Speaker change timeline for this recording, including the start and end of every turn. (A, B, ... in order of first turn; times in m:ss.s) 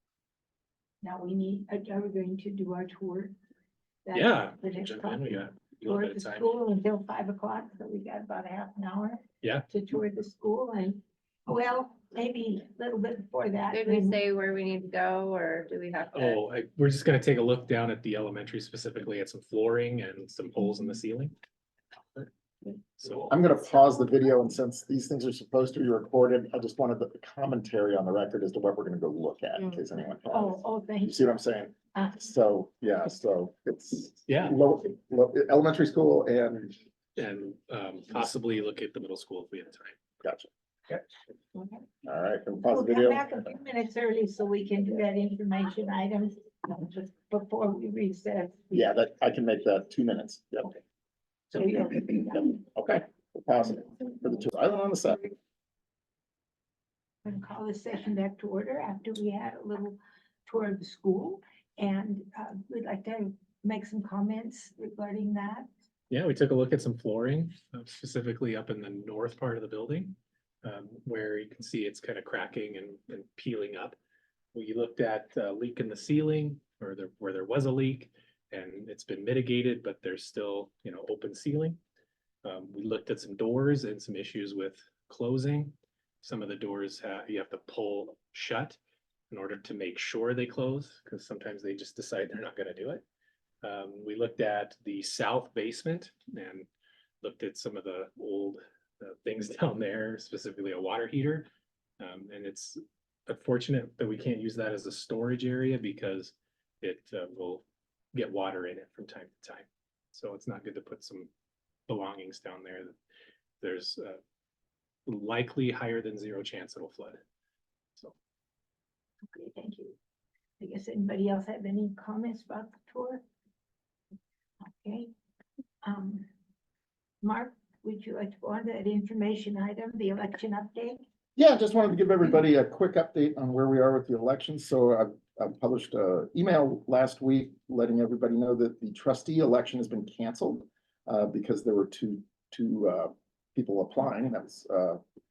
0:01.0-0:03.3 A
0:04.0-0:14.2 A
0:04.1-0:06.6 B
0:09.4-0:09.7 B
0:13.7-0:16.4 C
0:16.1-0:21.3 B
0:23.0-0:23.4 B
0:23.3-0:36.8 D
0:30.3-0:31.4 A
0:31.9-0:32.2 A
0:34.3-0:34.6 B
0:37.2-0:40.0 B
0:40.2-0:40.5 D
0:41.6-0:41.8 A
0:42.0-0:43.3 D
0:42.6-0:48.9 A
0:48.7-0:50.8 D
0:51.5-0:52.6 A
0:51.5-0:55.3 D
0:57.2-1:05.7 A
1:06.1-1:14.0 B
1:14.5-1:21.8 B
1:22.4-1:28.8 B
1:29.3-1:33.0 B
1:33.6-1:36.7 B
1:37.2-1:41.5 B
1:42.0-1:47.6 B
1:48.1-1:51.3 B
1:51.9-1:53.0 B
1:53.6-1:54.2 B
1:55.1-1:57.2 B
1:59.3-2:00.0 A
2:00.6-2:03.2 A
2:04.6-2:05.1 A
2:05.8-2:06.2 A
2:07.2-2:11.0 A
2:11.4-2:25.0 D